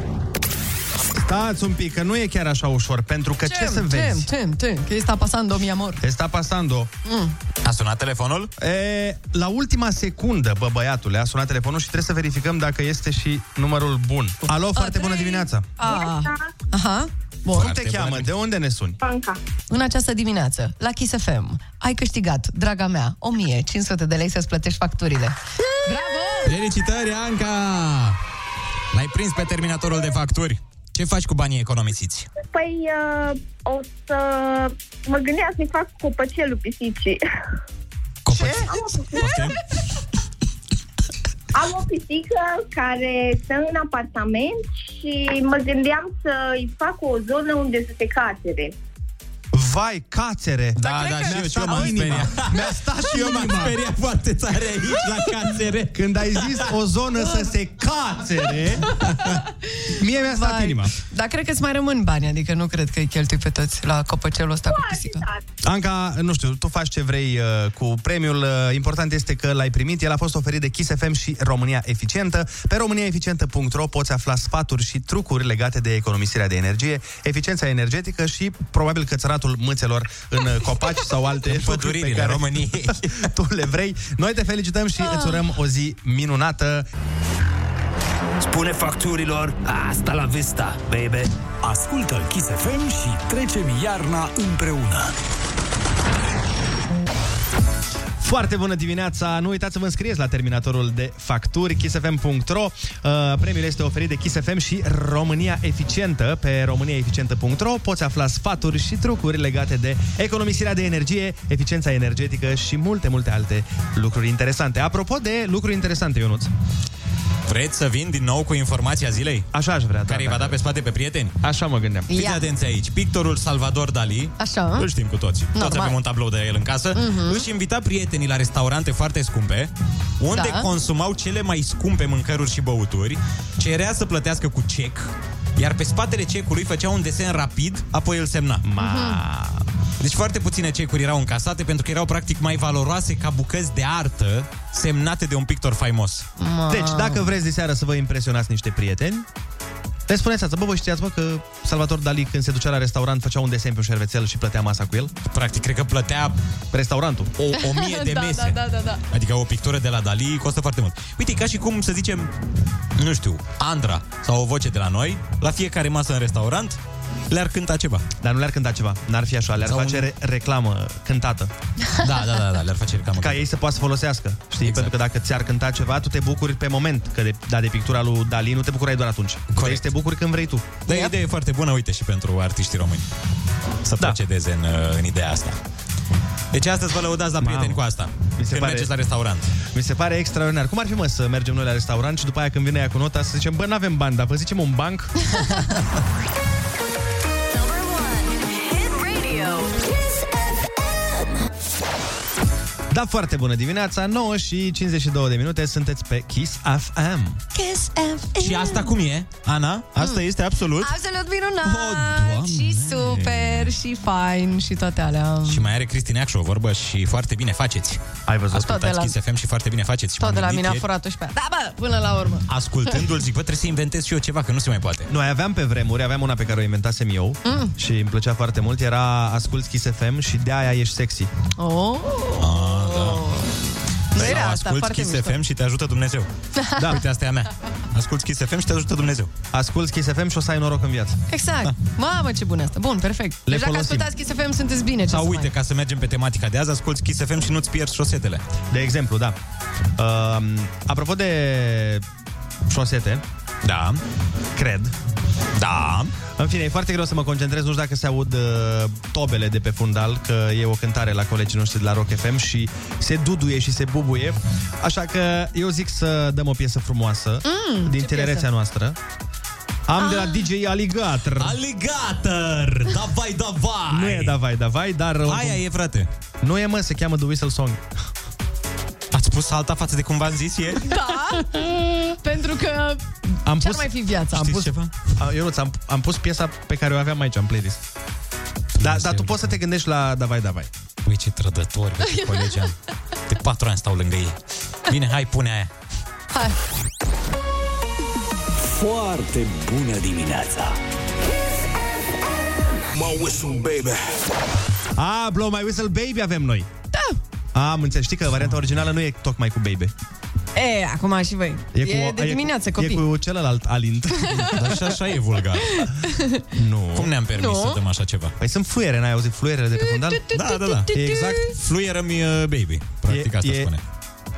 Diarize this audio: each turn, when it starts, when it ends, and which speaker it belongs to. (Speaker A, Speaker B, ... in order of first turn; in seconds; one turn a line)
Speaker A: 1.1-4.3
Speaker B: 3.5-6.0
Speaker A: 6.0-6.9
Speaker B: 7.0-7.3
Speaker C: 7.6-8.5
Speaker A: 8.6-15.7
Speaker B: 14.8-17.7
Speaker D: 15.8-16.5
Speaker A: 17.5-19.0
Speaker C: 17.5-18.3
Speaker D: 19.0-19.4
Speaker B: 19.7-26.5
Speaker C: 26.4-28.2
Speaker C: 28.9-32.3
Speaker D: 32.5-37.2
Speaker C: 38.2-39.5
Speaker A: 38.3-38.7
Speaker D: 38.6-39.5
Speaker D: 41.5-48.7
Speaker A: 49.5-53.8
Speaker C: 50.8-56.7
Speaker B: 50.8-52.2
Speaker A: 55.9-58.9
Speaker B: 58.9-65.3
Speaker A: 59.9-60.9
Speaker D: 64.7-65.4
Speaker A: 65.6-86.8
Speaker C: 81.4-83.3
Speaker B: 85.0-85.4
Speaker E: 88.4-95.1
Speaker A: 98.2-116.5
Speaker C: 117.5-119.5
Speaker A: 119.5-120.6
Speaker C: 120.0-121.4
Speaker A: 121.4-122.1
Speaker B: 122.1-122.5
Speaker C: 122.1-138.6
Speaker B: 124.4-124.9
Speaker B: 125.5-126.0
Speaker B: 126.9-127.4
Speaker B: 130.3-130.7
Speaker A: 138.6-139.7
Speaker B: 138.8-139.2
Speaker C: 140.0-146.3
Speaker B: 146.4-147.2
Speaker A: 146.7-149.2
Speaker A: 150.1-155.1
Speaker C: 155.3-156.3
Speaker A: 156.7-157.3
Speaker C: 157.4-162.3
Speaker B: 157.5-159.0
Speaker C: 162.9-166.8
Speaker C: 167.3-168.1
Speaker A: 168.2-171.5
Speaker C: 169.6-170.1
Speaker C: 172.0-173.5
Speaker A: 173.1-180.8
Speaker C: 174.6-174.9
Speaker C: 179.5-179.8
Speaker C: 180.8-183.0
Speaker C: 183.8-185.6
Speaker C: 186.5-189.5
Speaker A: 187.4-187.8
Speaker A: 188.4-188.9
Speaker A: 189.7-195.3
Speaker F: 197.5-201.3
Speaker A: 202.9-207.4
Speaker B: 207.5-208.9
Speaker C: 208.4-210.9
Speaker B: 210.8-215.6
Speaker C: 211.6-213.7
Speaker C: 215.4-218.0
Speaker A: 218.3-218.8
Speaker B: 218.5-219.1
Speaker C: 218.5-220.8
Speaker B: 220.2-222.5
Speaker C: 222.5-225.1
Speaker A: 225.1-231.3
Speaker B: 227.4-227.7
Speaker B: 231.6-235.3
Speaker C: 232.4-233.3
Speaker C: 234.1-239.3
Speaker B: 236.6-236.8
Speaker A: 239.5-241.2
Speaker B: 241.3-245.5
Speaker A: 243.4-244.1
Speaker C: 245.1-248.4
Speaker A: 248.7-249.3
Speaker A: 250.0-252.0
Speaker A: 252.7-253.2
Speaker C: 253.6-254.0
Speaker A: 254.6-254.9
Speaker C: 255.5-256.1
Speaker A: 256.3-269.0
Speaker B: 267.4-268.4
Speaker A: 269.9-271.6
Speaker B: 270.0-270.4
Speaker C: 271.4-274.4
Speaker A: 273.9-275.6
Speaker C: 275.2-276.1
Speaker A: 276.4-277.8
Speaker C: 279.1-280.9
Speaker B: 280.8-284.6
Speaker A: 283.4-287.8
Speaker C: 284.3-284.9
Speaker C: 288.8-289.6
Speaker A: 288.8-290.7
Speaker C: 291.0-292.8
Speaker B: 292.1-292.5
Speaker C: 293.3-295.7
Speaker E: 298.6-300.8
Speaker E: 302.9-304.1
Speaker A: 305.0-306.7
Speaker B: 306.9-307.2
Speaker A: 307.5-309.9
Speaker B: 310.5-313.0
Speaker A: 311.7-314.5
Speaker B: 314.2-314.6
Speaker C: 314.3-315.9
Speaker B: 315.7-316.4
Speaker A: 316.5-317.1
Speaker C: 316.9-318.3
Speaker B: 317.3-317.8
Speaker A: 318.4-320.2
Speaker B: 319.8-321.5
Speaker C: 320.3-323.8
Speaker A: 320.9-321.5
Speaker A: 323.1-323.7